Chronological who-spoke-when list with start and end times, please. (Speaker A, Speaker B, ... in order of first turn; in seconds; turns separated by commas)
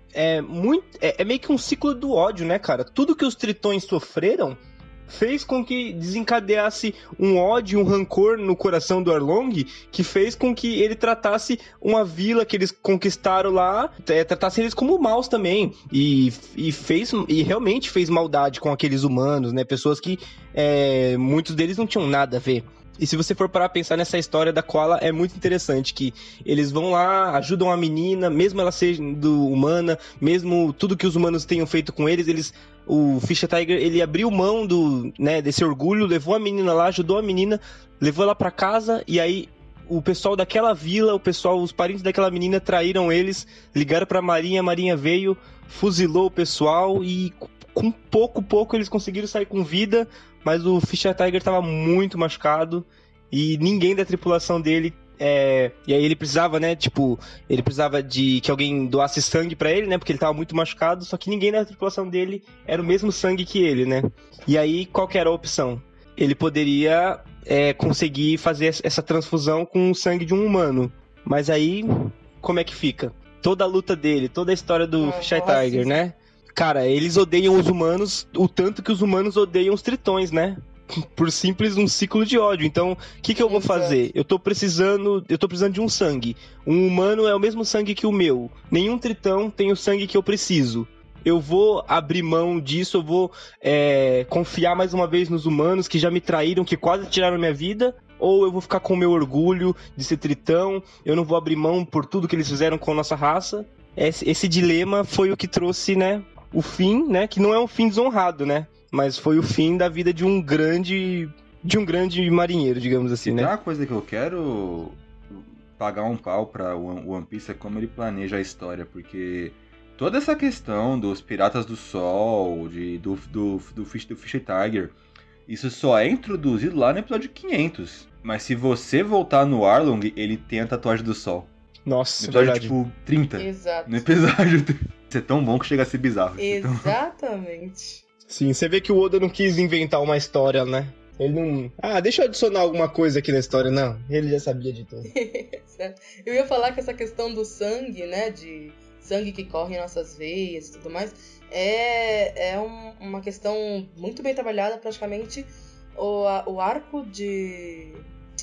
Speaker A: 0.1-113.5, Speaker B: 75.0-76.0, Speaker B: 83.5-84.1, Speaker C: 113.2-124.9, Speaker C: 125.5-131.5, Speaker A: 131.9-132.7, Speaker C: 132.2-136.9, Speaker B: 133.4-134.1, Speaker B: 136.4-138.0, Speaker A: 138.3-145.1, Speaker B: 145.1-158.1